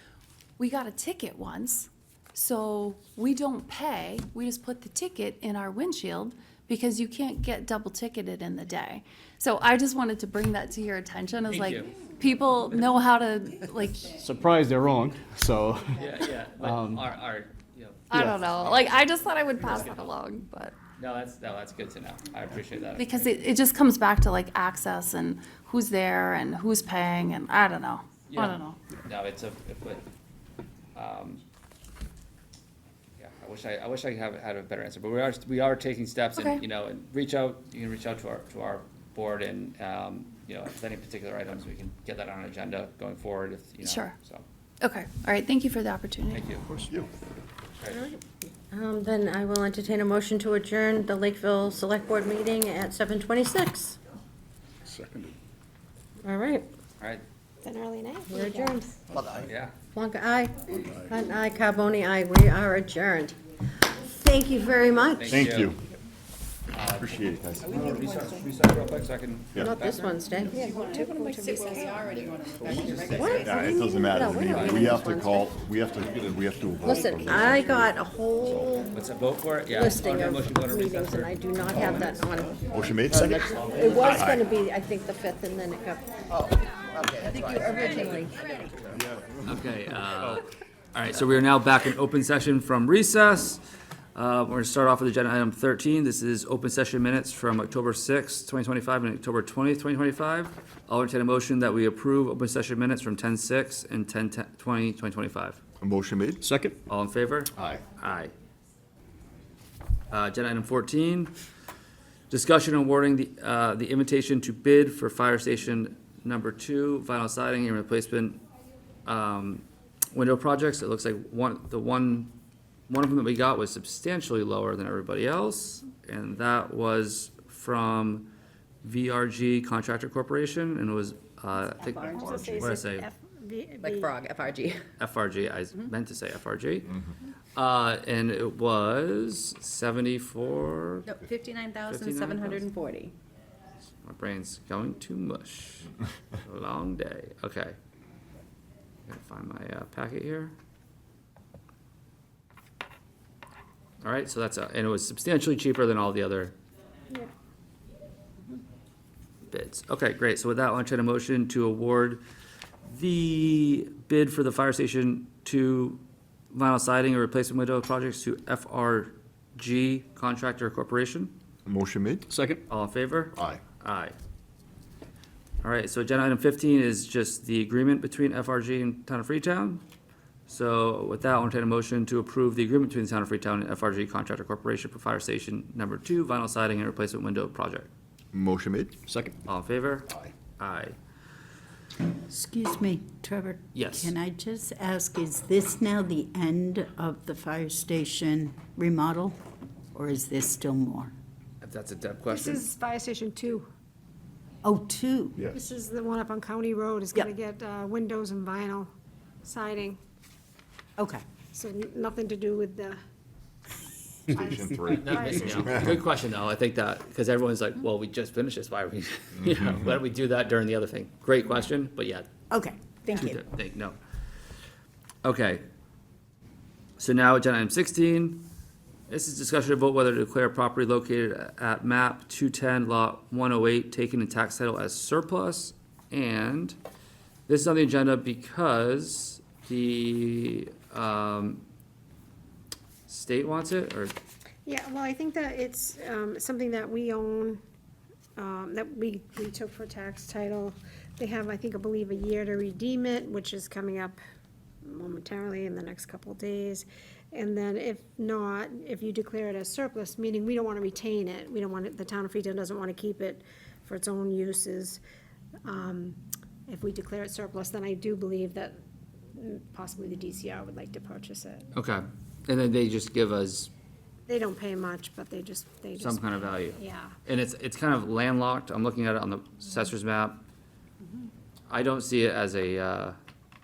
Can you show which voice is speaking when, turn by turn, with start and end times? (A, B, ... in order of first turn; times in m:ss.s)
0:00.6-0:14.1 A
0:11.5-0:11.9 B
0:14.2-0:16.0 C
0:16.0-0:18.0 B
0:16.7-0:17.0 C
0:18.1-0:20.8 A
0:18.1-0:18.4 C
0:19.7-0:20.1 B
0:21.0-0:23.2 B
0:23.0-0:28.8 A
0:28.3-0:30.0 B
0:30.9-0:31.4 B
0:33.2-0:44.4 B
0:36.4-0:36.6 A
0:43.8-0:44.2 A
0:44.8-0:46.5 A
0:46.3-0:46.6 B
0:47.8-0:48.1 B
0:47.9-0:54.0 D
0:54.9-0:55.3 C
0:56.2-0:56.6 D
0:57.6-0:58.9 E
0:58.3-0:58.9 D
0:59.5-0:59.7 B
0:59.9-1:03.4 D
1:04.0-1:05.5 D
1:05.2-1:05.8 B
1:05.3-1:05.8 F
1:06.7-1:10.2 B
1:07.0-1:07.7 F
1:07.9-1:08.3 E
1:09.6-1:10.7 D
1:10.5-1:12.0 E
1:12.0-1:13.5 G
1:12.7-1:15.5 D
1:13.4-1:18.7 F
1:14.4-1:14.9 B
1:16.8-1:18.9 D
1:18.9-1:22.2 B
1:19.7-1:22.6 D
1:22.7-1:23.5 F
1:23.1-1:26.4 D
1:23.5-1:24.4 B
1:24.0-1:24.4 F
1:27.1-1:28.4 D
1:29.0-1:29.6 F
1:29.4-1:33.6 B
1:34.1-1:45.6 B
1:45.8-1:46.4 F
1:46.4-1:46.8 C
1:46.9-1:48.3 B
1:47.6-1:47.9 F
1:50.1-1:51.3 B
1:52.3-1:58.4 B
1:59.0-2:02.3 B
2:02.9-2:08.3 B
2:08.8-2:13.1 B
2:12.0-2:12.7 G
2:12.1-2:14.1 E
2:13.8-2:14.8 G
2:15.0-2:17.0 B
2:17.6-2:21.1 B
2:21.1-2:23.1 G
2:21.8-2:22.7 B
2:24.0-2:25.9 B
2:26.4-2:27.8 B
2:29.1-2:30.5 B
2:34.0-2:36.5 B
2:39.5-2:42.2 B
2:42.9-2:51.3 B
2:51.6-2:52.2 F
2:52.3-2:52.6 C
2:52.7-2:54.2 B
2:53.3-2:53.6 F
2:55.6-2:59.8 B
3:00.5-3:07.9 B
3:08.3-3:09.0 F
3:09.1-3:09.3 C
3:09.4-3:10.9 B
3:12.3-3:19.4 H
3:13.7-3:14.1 B
3:19.9-3:21.1 H
3:21.6-3:22.6 B
3:22.3-3:23.7 E
3:24.6-3:25.4 H
3:25.4-3:28.9 E
3:29.4-3:30.0 E
3:31.0-3:31.2 H
3:31.5-3:33.0 E
3:34.3-3:35.8 E
3:34.5-3:36.0 F
3:34.9-3:42.3 B
3:42.5-3:43.4 H
3:43.1-3:44.0 B
3:45.2-3:45.6 B
3:47.0-3:48.4 B
3:49.1-3:56.8 B
3:57.5-4:01.6 B
4:03.1-4:04.1 B
4:04.6-4:07.6 E
4:08.4-4:14.2 E
4:14.8-4:25.0 E
4:25.6-4:28.8 E
4:29.3-4:31.7 E
4:31.7-4:33.7 B
4:34.3-4:37.1 E
4:36.0-4:40.4 B
4:41.7-4:43.2 B